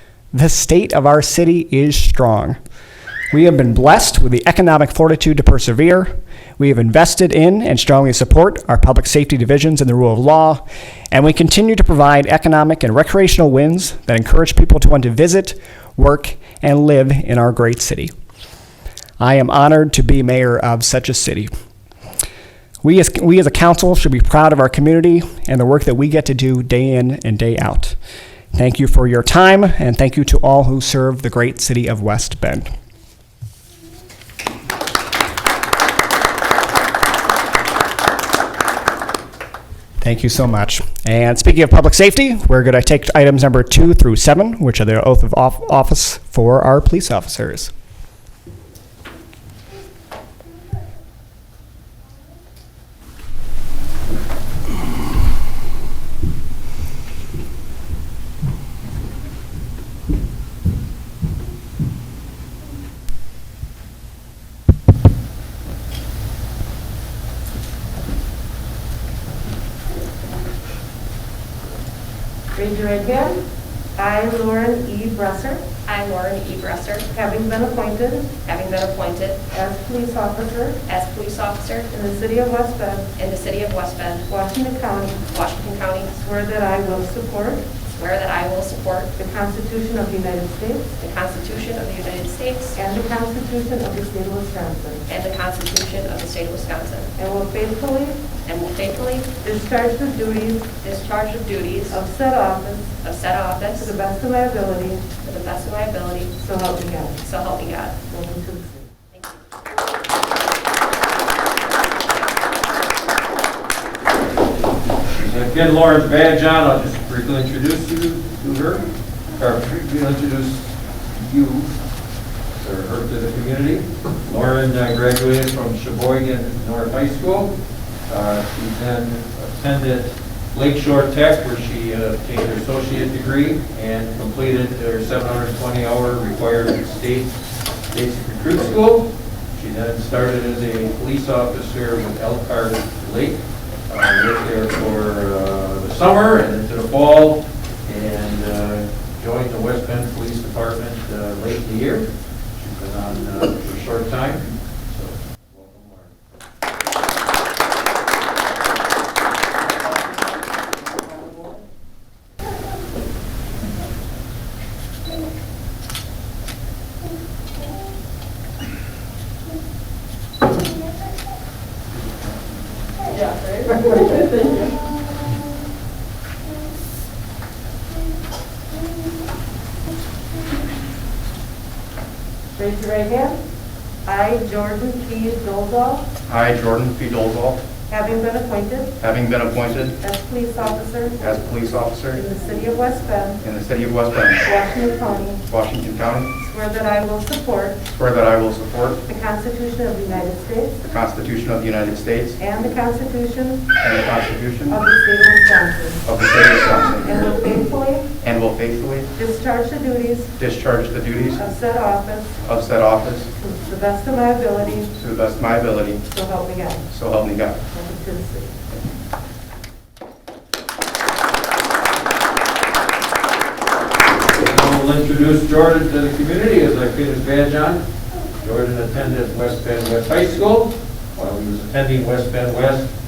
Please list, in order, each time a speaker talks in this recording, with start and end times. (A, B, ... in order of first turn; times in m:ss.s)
0:00.3-0:02.6 A
0:03.3-0:18.1 A
0:19.2-0:21.5 A
0:22.8-0:28.0 A
0:28.5-0:32.7 A
0:40.0-0:47.7 A
1:12.5-1:13.4 B
1:14.0-1:15.7 B
1:15.8-1:17.1 C
1:17.1-1:18.4 B
1:18.4-1:19.4 C
1:19.5-1:20.8 B
1:20.8-1:21.9 C
1:21.9-1:23.1 B
1:23.2-1:24.3 C
1:24.3-1:25.2 B
1:25.2-1:26.2 C
1:26.1-1:27.6 B
1:28.0-1:29.1 C
1:29.1-1:31.0 B
1:31.0-1:32.8 C
1:32.7-1:35.0 B
1:35.1-1:37.1 C
1:37.2-1:38.3 B
1:38.4-1:39.4 C
1:39.4-1:40.8 B
1:40.8-1:42.0 C
1:41.9-1:43.0 B
1:43.0-1:43.9 C
1:43.8-1:45.0 B
1:45.2-1:46.4 C
1:46.4-1:47.2 B
1:47.2-1:48.0 C
1:48.1-1:49.0 B
1:49.1-1:49.4 C
1:55.2-2:01.7 D
2:02.5-2:07.6 D
2:08.1-2:17.4 D
2:17.9-2:36.0 D
2:53.2-2:54.8 B
3:02.6-3:03.4 B
3:04.0-3:06.1 B
3:06.3-3:07.6 E
3:07.9-3:09.0 B
3:09.0-3:10.0 E
3:10.0-3:11.2 B
3:11.2-3:12.2 E
3:12.1-3:13.4 B
3:13.4-3:14.5 E
3:14.4-3:15.4 B
3:15.4-3:16.3 E
3:16.4-3:17.8 B
3:17.9-3:19.0 E
3:19.0-3:20.8 B
3:20.8-3:22.4 E
3:22.4-3:23.7 B
3:23.8-3:24.8 E
3:24.7-3:26.0 B
3:26.0-3:27.1 E
3:27.0-3:28.1 B
3:28.2-3:29.1 E
3:29.1-3:30.3 B
3:30.4-3:31.4 E
3:31.4-3:32.4 B
3:32.4-3:33.3 E
3:33.4-3:34.9 B
3:34.9-3:36.0 E
3:36.1-3:36.8 B
3:36.9-3:37.6 E
3:37.7-3:38.5 B
3:44.4-3:47.8 D
3:48.4-3:52.9 D